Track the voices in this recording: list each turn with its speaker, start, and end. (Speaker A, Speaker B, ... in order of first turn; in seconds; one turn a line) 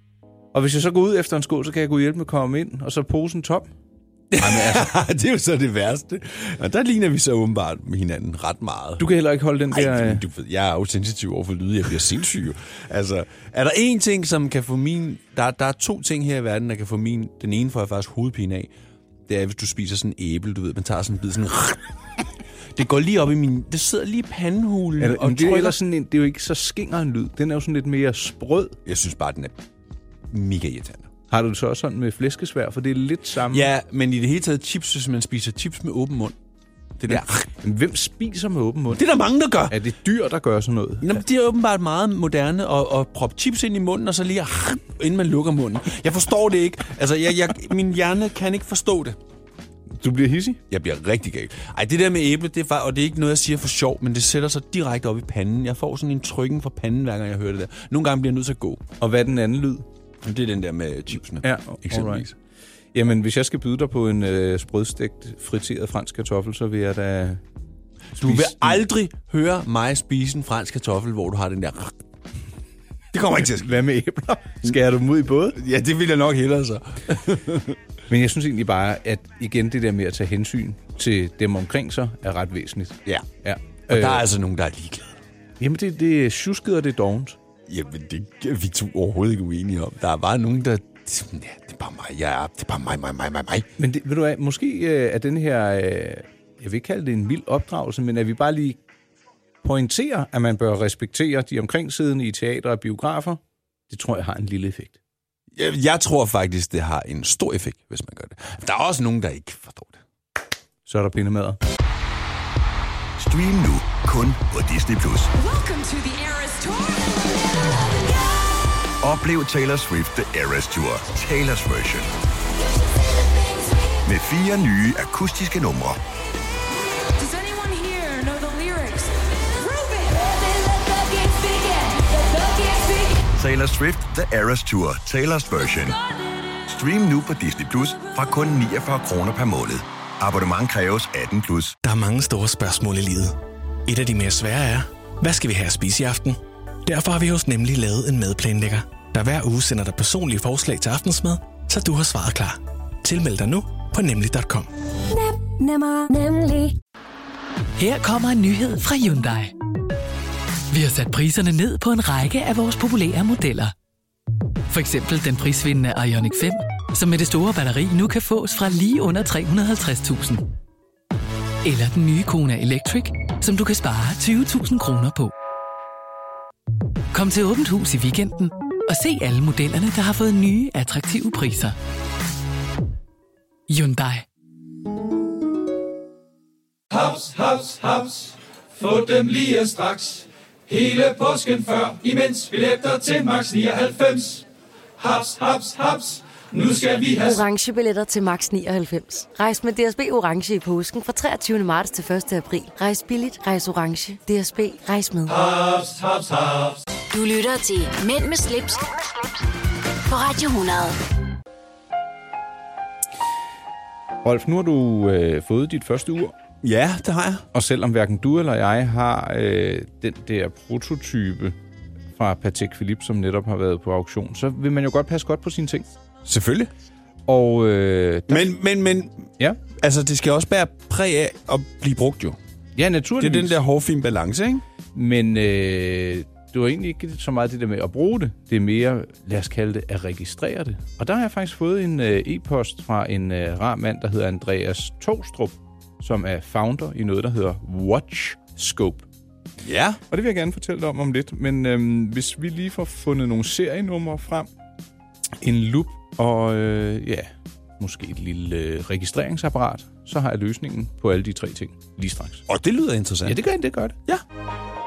Speaker A: 0.5-3.7
Speaker B: 4.3-9.1
Speaker A: 4.4-4.9
Speaker A: 9.0-10.2
Speaker B: 9.7-18.7
Speaker B: 19.3-21.9
Speaker B: 22.7-25.8
Speaker A: 25.0-28.8
Speaker B: 28.8-29.6
Speaker B: 30.3-31.1
Speaker A: 31.3-33.7
Speaker B: 33.5-36.4
Speaker B: 37.0-37.5
Speaker A: 37.1-39.0
Speaker B: 38.9-39.8
Speaker A: 39.7-41.1
Speaker B: 41.0-49.2
Speaker A: 50.0-50.6
Speaker B: 50.7-58.8
Speaker A: 59.0-59.9
Speaker B: 60.2-62.3
Speaker A: 61.4-62.3
Speaker A: 62.9-67.4
Speaker B: 68.2-72.0
Speaker A: 68.2-68.8
Speaker B: 73.1-73.8
Speaker A: 73.3-75.6
Speaker B: 75.5-77.8
Speaker A: 78.1-84.3
Speaker B: 83.9-85.2
Speaker A: 85.6-87.4
Speaker B: 87.7-93.7
Speaker A: 93.8-98.8
Speaker A: 99.6-105.0
Speaker B: 105.5-110.0
Speaker A: 110.8-111.6
Speaker C: 113.2-115.3
Speaker D: 115.3-117.5
Speaker C: 119.0-122.1
Speaker C: 124.0-126.0
Speaker D: 127.2-133.2
Speaker C: 133.3-136.0
Speaker C: 136.7-141.8
Speaker E: 141.8-154.7
Speaker F: 157.8-159.5
Speaker F: 160.7-163.7
Speaker F: 164.7-170.4
Speaker F: 171.6-175.3
Speaker F: 177.1-181.8
Speaker F: 183.7-184.2
Speaker G: 186.9-194.4
Speaker G: 195.0-197.4
Speaker H: 197.2-205.3
Speaker G: 205.2-206.8
Speaker I: 207.1-208.9
Speaker I: 210.1-211.0
Speaker A: 214.2-216.3
Speaker B: 216.6-217.4
Speaker A: 217.5-221.6
Speaker A: 222.2-225.9
Speaker B: 226.2-226.7
Speaker A: 227.3-228.5
Speaker B: 228.3-232.4
Speaker A: 232.8-233.6
Speaker B: 233.2-234.6
Speaker A: 234.9-249.1
Speaker B: 249.6-250.0
Speaker A: 250.1-254.5
Speaker A: 255.4-257.3
Speaker A: 257.8-262.4
Speaker B: 262.5-263.4
Speaker A: 263.2-264.0